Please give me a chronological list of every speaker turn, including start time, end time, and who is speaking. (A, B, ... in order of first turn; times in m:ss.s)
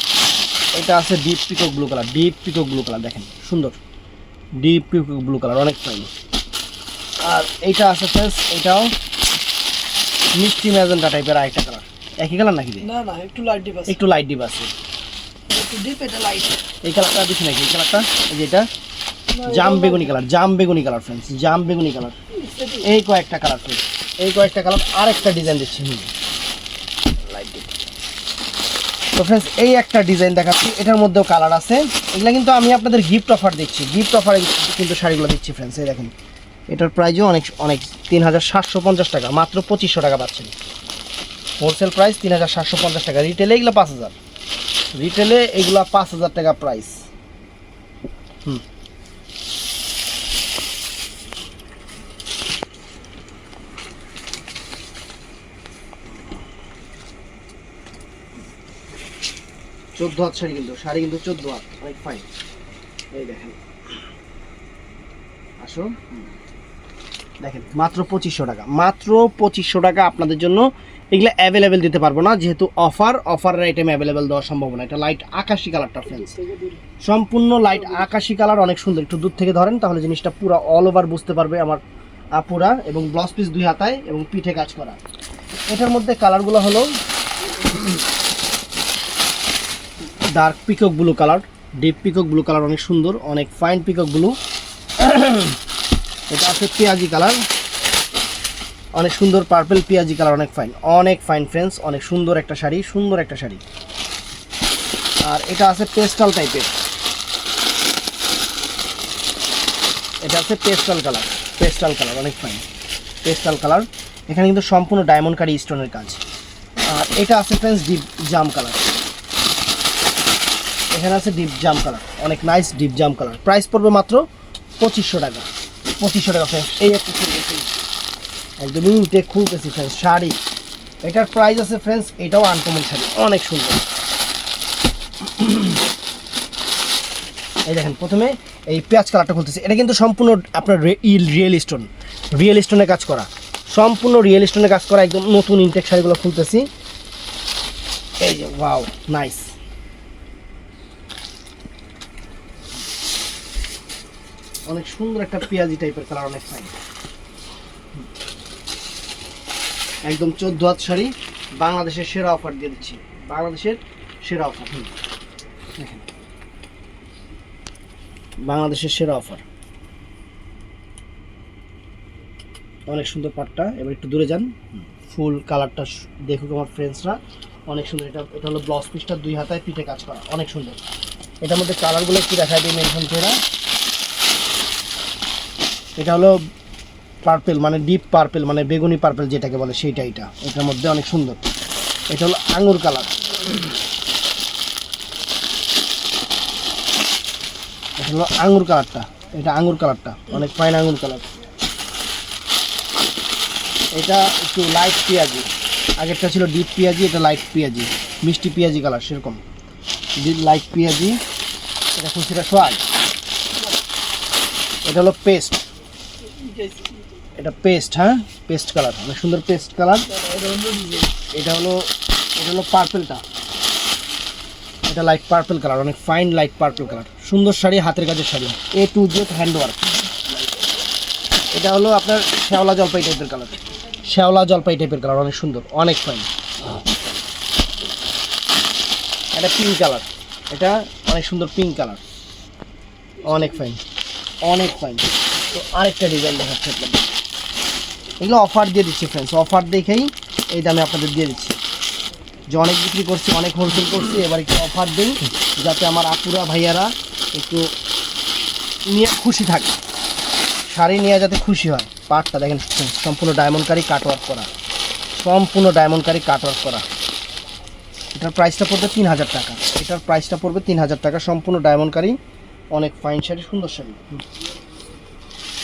0:00.7-0:03.8 A
0:04.6-0:06.1 A
0:07.2-0:08.9 A
0:10.4-0:12.9 A
0:12.8-0:14.0 B
0:13.9-0:14.7 A
0:15.5-0:16.6 B
0:16.8-0:18.6 A
0:19.3-0:20.2 B
0:19.4-0:22.2 A
0:22.4-0:22.8 B
0:22.8-0:26.1 A
0:27.3-0:27.7 A
0:29.1-0:36.1 A
0:36.7-0:40.5 A
0:41.6-0:44.2 A
0:45.0-0:47.0 A
1:00.0-1:02.2 A
1:03.1-1:03.6 A
1:05.6-1:06.2 A
1:07.4-1:16.3 A
1:16.1-1:16.8 B
1:17.0-1:21.8 A
1:22.4-1:25.0 A
1:25.7-1:26.9 A
1:30.3-1:34.3 A
1:35.0-1:35.6 A
1:36.3-1:37.4 A
1:39.0-1:43.6 A
1:45.2-1:46.7 A
1:50.2-1:52.6 A
1:53.2-1:56.2 A
1:56.9-1:58.9 A
2:00.9-2:04.2 A
2:04.8-2:05.5 A
2:06.0-2:07.7 A
2:08.6-2:10.4 A
2:11.0-2:13.9 A
2:15.2-2:15.8 A
2:17.7-2:26.6 A
2:28.2-2:29.5 A
2:34.7-2:36.7 A
2:40.0-2:44.9 A
2:45.8-2:46.1 A
2:48.4-2:49.4 A
2:52.9-2:57.2 A
2:57.7-3:00.8 A
3:01.4-3:03.4 A
3:06.0-3:06.4 A
3:07.2-3:11.4 A
3:12.1-3:13.2 A
3:18.0-3:21.3 A
3:23.9-3:29.4 A
3:30.2-3:31.2 A
3:32.0-3:32.8 A
3:34.8-3:35.6 A
3:36.2-3:37.0 B
3:37.4-3:40.1 A
3:40.1-3:41.1 B
3:41.3-3:41.9 A
3:42.4-3:43.2 A
3:44.9-3:49.9 A
3:51.5-3:56.3 A
3:59.3-4:02.0 A
4:03.2-4:03.8 A
4:04.4-4:07.0 A
4:08.2-4:11.6 A
4:12.5-4:17.7 A
4:18.9-4:19.8 A
4:20.7-4:24.5 A
4:25.2-4:26.8 A
4:28.1-4:32.2 A
4:32.7-4:34.2 A